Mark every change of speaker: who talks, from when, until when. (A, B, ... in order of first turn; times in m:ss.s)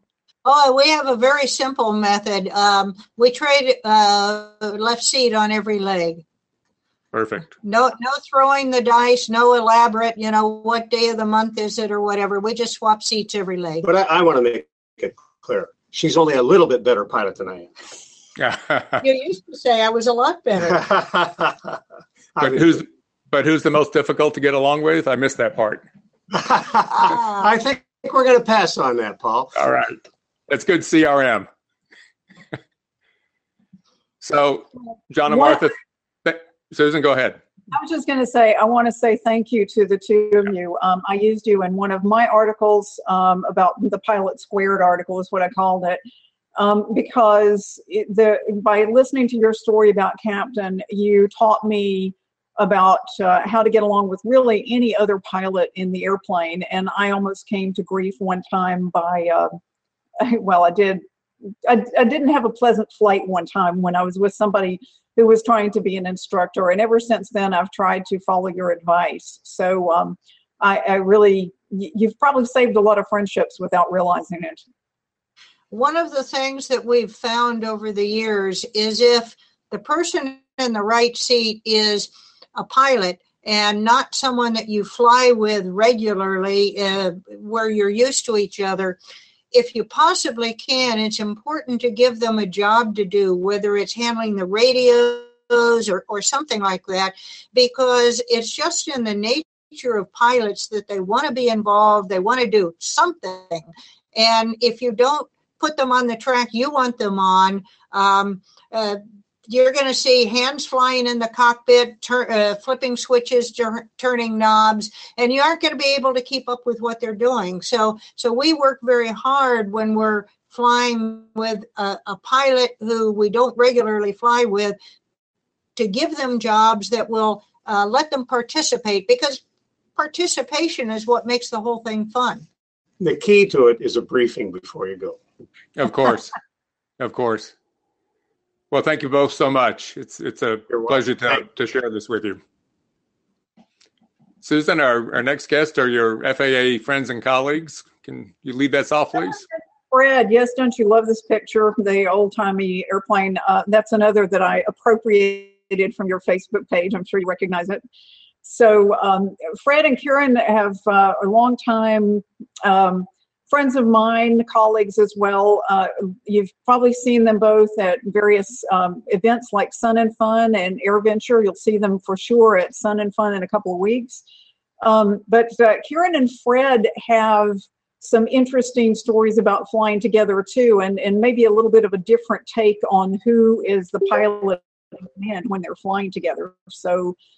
0:00.4-0:06.2 A
0:07.1-0:07.5 B
0:07.6-0:13.8 A
0:13.8-0:17.7 C
0:18.4-0:19.0 B
0:19.0-0:20.8 A
0:20.7-0:21.7 C
0:22.4-0:22.8 C
0:22.4-0:25.8 B
0:26.3-0:29.5 C
0:27.0-0:27.5 A
0:29.6-0:31.5 B
0:34.2-0:37.4 B
0:35.3-0:35.6 D
0:37.7-0:46.0 D
0:46.6-0:59.6 D
1:00.2-1:01.0 D
1:01.6-1:14.6 D
1:15.7-1:29.0 A
1:29.5-2:04.8 A
2:05.8-2:09.4 A
2:10.0-2:12.4 A
2:13.0-2:15.2 C
2:15.8-2:16.3 B
2:17.0-2:17.5 B
2:18.7-2:22.4 B
2:20.7-2:21.4 C
2:24.4-2:29.4 B
2:29.3-2:37.8 D
2:38.4-2:54.2 D
2:54.8-3:07.1 D